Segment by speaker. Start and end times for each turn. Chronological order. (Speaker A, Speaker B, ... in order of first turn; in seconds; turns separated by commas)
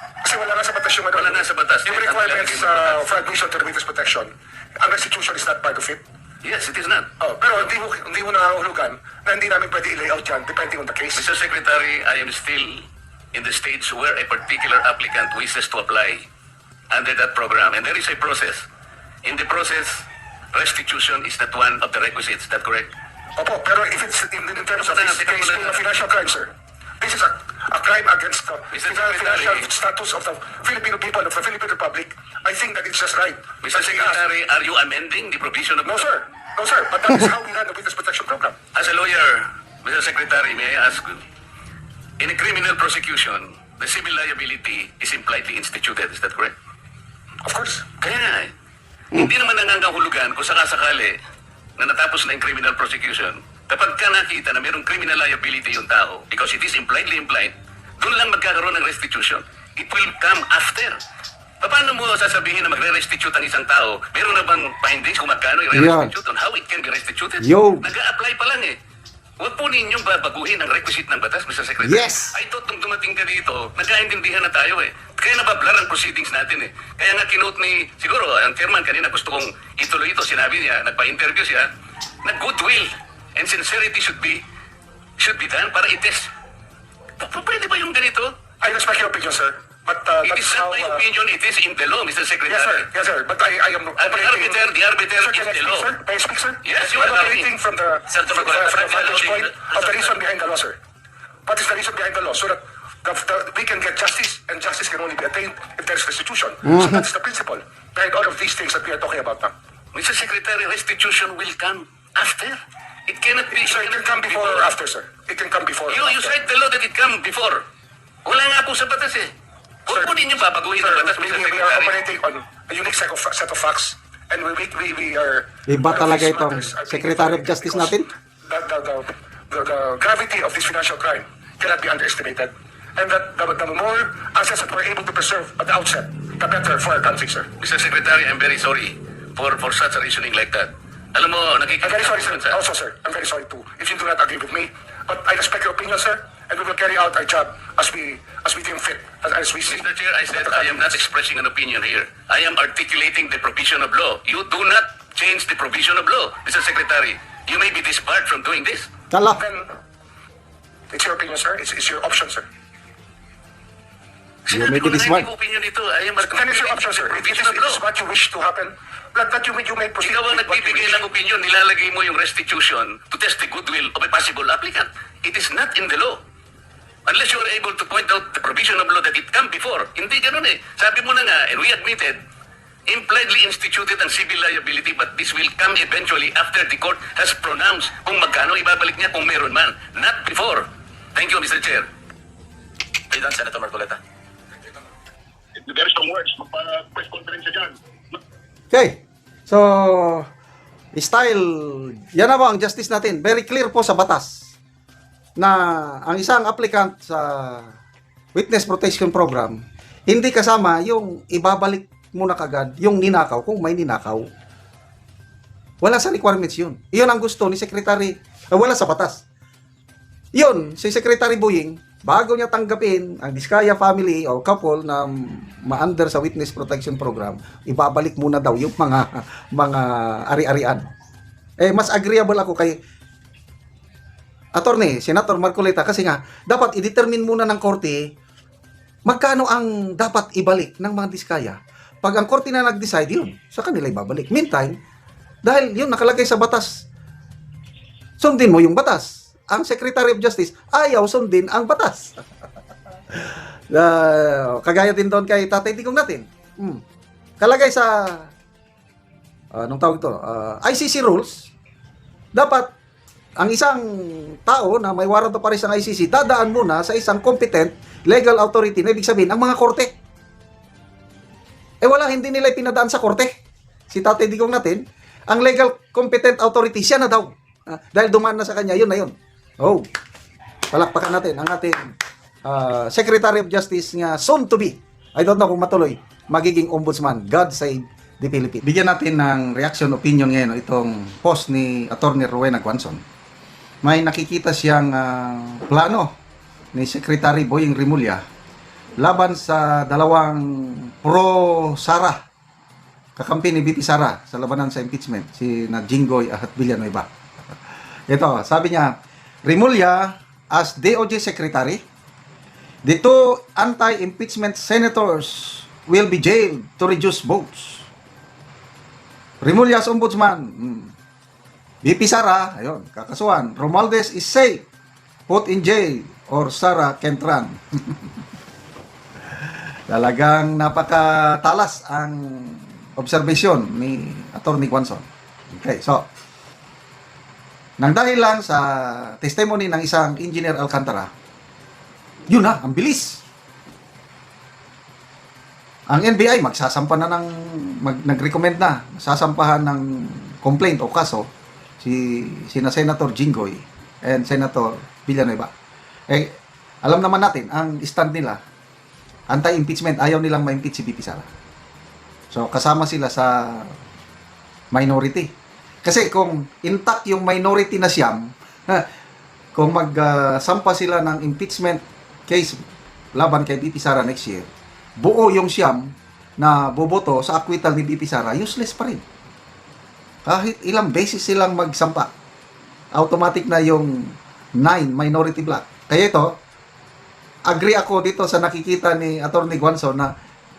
Speaker A: 0.2-6.0, Speaker B: 1.1-3.2, Speaker B: 6.4-7.1, Speaker A: 7.2-11.3, Speaker B: 11.2-16.2, Speaker B: 16.9-18.6, Speaker B: 19.2-22.9, Speaker A: 23.4-34.2, Speaker B: 24.6-25.8, Speaker B: 28.7-29.7, Speaker B: 33.6-36.1, Speaker A: 35.9-38.6, Speaker B: 38.7-41.2, Speaker B: 42.2-46.5, Speaker A: 47.4-48.0, Speaker B: 48.0-48.5, Speaker B: 49.1-51.2, Speaker B: 51.8-61.0, Speaker B: 61.6-68.8, Speaker C: 65.7-66.1, Speaker C: 67.4-67.9, Speaker B: 69.4-81.7, Speaker C: 71.8-72.4, Speaker B: 82.2-84.4, Speaker B: 85.2-86.3, Speaker B: 87.2-88.3, Speaker A: 88.6-91.0, Speaker B: 90.2-92.9, Speaker A: 92.5-100.8, Speaker B: 94.0-96.0, Speaker B: 96.7-97.5, Speaker B: 98.1-100.2, Speaker A: 101.5-109.5, Speaker C: 106.7-107.0, Speaker B: 109.9-114.7, Speaker A: 113.5-116.3, Speaker B: 115.9-117.6, Speaker B: 118.2-119.3, Speaker A: 119.9-120.2, Speaker B: 119.9-122.0, Speaker A: 120.7-137.5, Speaker C: 125.7-128.1, Speaker B: 137.6-142.6, Speaker A: 141.8-150.9, Speaker B: 149.7-158.9, Speaker C: 159.1-159.4, Speaker A: 159.4-159.7, Speaker A: 160.9-162.5, Speaker B: 164.5-167.8, Speaker C: 164.5-165.3, Speaker A: 166.2-171.0, Speaker B: 170.0-176.2, Speaker B: 177.1-182.2, Speaker B: 182.9-191.9, Speaker B: 193.1-194.0, Speaker D: 195.6-197.7, Speaker C: 198.7-200.3, Speaker C: 200.9-204.5, Speaker C: 205.4-207.8, Speaker C: 208.3-214.3, Speaker C: 215.8-219.2, Speaker C: 220.3-230.9, Speaker C: 231.6-232.8, Speaker C: 234.6-238.1, Speaker C: 239.1-244.8, Speaker C: 245.4-246.8, Speaker C: 248.2-252.2, Speaker C: 253.1-256.8, Speaker C: 257.4-258.3, Speaker C: 259.5-261.5, Speaker C: 262.4-262.7, Speaker C: 263.4-269.9, Speaker C: 271.8-273.3, Speaker C: 273.9-279.9, Speaker C: 280.7-281.9, Speaker C: 282.4-293.0, Speaker C: 293.8-296.1, Speaker C: 296.7-298.2, Speaker C: 299.0-302.2, Speaker C: 303.2-308.9, Speaker C: 309.4-311.8, Speaker C: 312.9-317.9, Speaker C: 319.4-320.9, Speaker C: 321.8-324.6, Speaker C: 325.3-328.1, Speaker C: 329.9-336.1, Speaker C: 337.8-341.1, Speaker C: 342.3-343.2, Speaker C: 345.9-351.3, Speaker C: 351.8-355.5, Speaker C: 356.1-358.4, Speaker C: 359.3-361.3, Speaker C: 362.3-363.8, Speaker C: 364.7-365.3, Speaker C: 365.8-368.9, Speaker C: 369.6-372.6, Speaker C: 373.2-379.0, Speaker C: 380.2-382.1, Speaker C: 382.9-386.3, Speaker C: 387.5-390.1